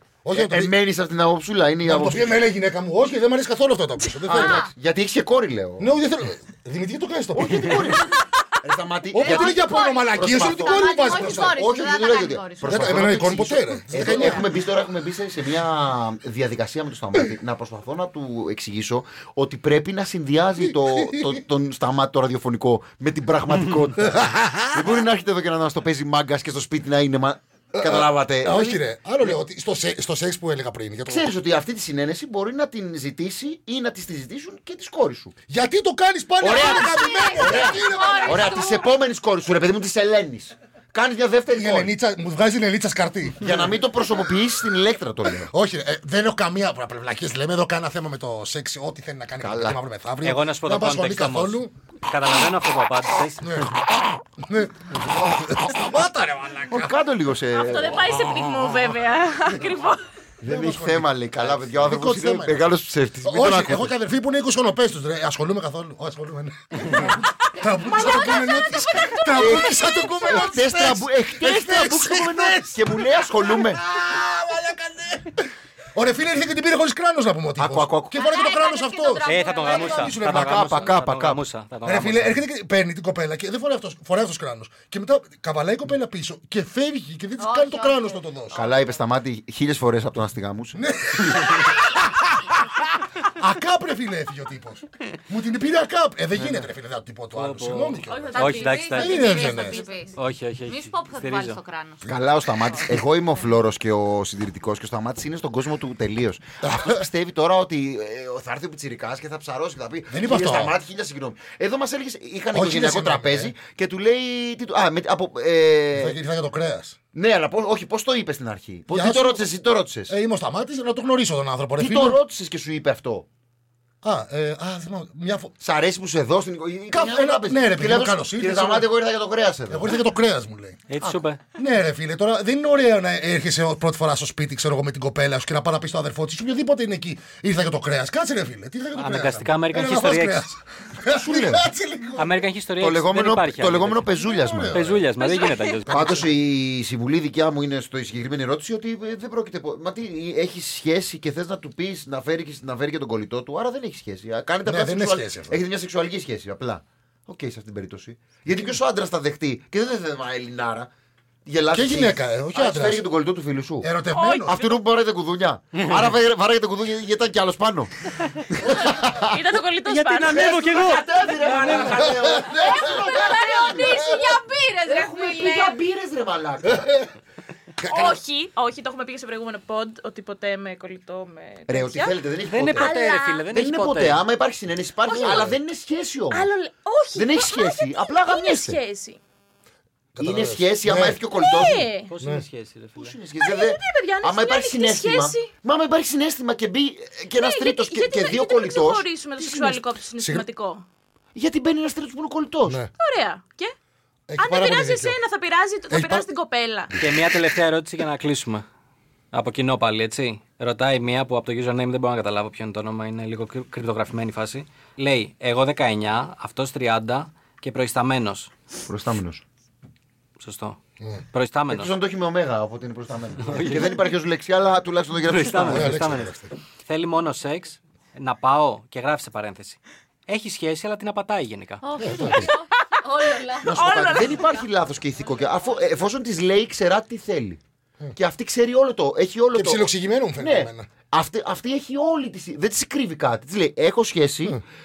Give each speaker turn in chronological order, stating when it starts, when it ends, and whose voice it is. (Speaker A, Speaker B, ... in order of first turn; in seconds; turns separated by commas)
Speaker A: 0.2-0.8, Speaker B: 0.3-2.4, Speaker A: 1.8-4.7, Speaker B: 4.3-5.9, Speaker C: 4.3-4.7, Speaker A: 5.8-8.1, Speaker B: 7.3-24.2, Speaker A: 9.1-11.6, Speaker C: 9.2-13.1, Speaker A: 12.6-14.5, Speaker C: 13.9-14.4, Speaker A: 20.6-21.4, Speaker A: 24.0-25.1, Speaker B: 24.7-29.4, Speaker A: 27.8-31.3, Speaker B: 31.1-35.4, Speaker A: 35.5-38.7, Speaker B: 36.4-41.9, Speaker C: 36.4-38.9, Speaker A: 41.5-44.0, Speaker B: 43.4-45.5, Speaker A: 45.3-51.7, Speaker B: 49.4-49.8, Speaker D: 50.2-53.7, Speaker A: 53.4-57.0, Speaker B: 56.7-58.4, Speaker E: 57.5-60.0, Speaker A: 58.1-59.0, Speaker B: 60.4-64.0, Speaker A: 60.4-80.9, Speaker E: 67.8-70.1, Speaker B: 69.3-73.8, Speaker B: 77.6-78.3, Speaker C: 78.2-80.2, Speaker D: 79.2-82.4, Speaker B: 80.2-81.5, Speaker A: 81.8-88.6, Speaker C: 87.4-89.0, Speaker B: 88.5-91.7, Speaker A: 90.8-99.8, Speaker D: 97.3-99.3, Speaker E: 98.1-100.1, Speaker C: 98.5-102.8, Speaker D: 100.2-101.6, Speaker B: 102.0-116.2, Speaker A: 106.6-107.0, Speaker A: 110.1-110.8, Speaker A: 112.5-113.5, Speaker A: 115.9-117.0, Speaker B: 117.1-120.2, Speaker A: 118.9-119.5, Speaker A: 120.1-122.2, Speaker B: 121.8-123.3, Speaker A: 124.0-125.5, Speaker B: 125.6-130.0, Speaker A: 126.9-128.9, Speaker A: 129.7-130.9, Speaker D: 130.9-131.4, Speaker A: 131.6-142.4, Speaker D: 139.0-140.4, Speaker B: 141.2-141.7, Speaker D: 142.2-144.2, Speaker B: 142.8-144.8, Speaker A: 144.1-145.1, Speaker D: 144.7-146.2, Speaker C: 145.3-145.6, Speaker A: 145.9-146.3, Speaker B: 145.9-160.9, Speaker A: 154.7-155.6, Speaker A: 158.5-158.8, Speaker B: 161.5-163.9, Speaker A: 161.7-163.1, Speaker A: 163.8-164.7, Speaker E: 164.1-164.8, Speaker B: 164.4-169.4, Speaker E: 168.8-171.0, Speaker D: 169.8-172.1, Speaker B: 170.2-174.2, Speaker E: 171.5-171.8, Speaker A: 171.7-172.9, Speaker C: 172.4-175.8, Speaker E: 172.7-174.0, Speaker B: 174.9-176.9, Speaker A: 176.7-177.1, Speaker A: 177.8-178.2, Speaker E: 177.9-182.2, Speaker B: 181.7-186.5, Speaker D: 182.5-184.2, Speaker E: 182.8-183.5, Speaker E: 185.1-185.5, Speaker A: 185.2-185.6, Speaker E: 186.3-189.2, Speaker B: 187.2-188.8, Speaker A: 190.2-191.2, Speaker B: 190.2-191.9, Speaker E: 191.3-192.1, Speaker D: 192.1-193.2, Speaker B: 193.0-199.8, Speaker E: 193.4-195.5, Speaker E: 197.3-200.8, Speaker A: 200.2-200.5, Speaker B: 201.3-202.8, Speaker E: 203.0-203.8, Speaker A: 204.3-205.2, Speaker E: 204.4-206.9, Speaker A: 205.9-206.3, Speaker D: 207.0-208.7, Speaker D: 209.3-218.5, Speaker B: 218.9-219.4, Speaker D: 220.4-220.8, Speaker D: 221.3-221.9, Speaker B: 221.7-226.0, Speaker D: 223.4-224.0, Speaker D: 225.2-231.9, Speaker A: 225.6-226.5, Speaker C: 231.8-234.7, Speaker A: 232.0-232.4, Speaker B: 232.0-232.5, Speaker E: 233.3-234.6, Speaker B: 233.6-237.6, Speaker C: 235.4-235.8, Speaker B: 238.2-244.6, Speaker A: 239.5-240.9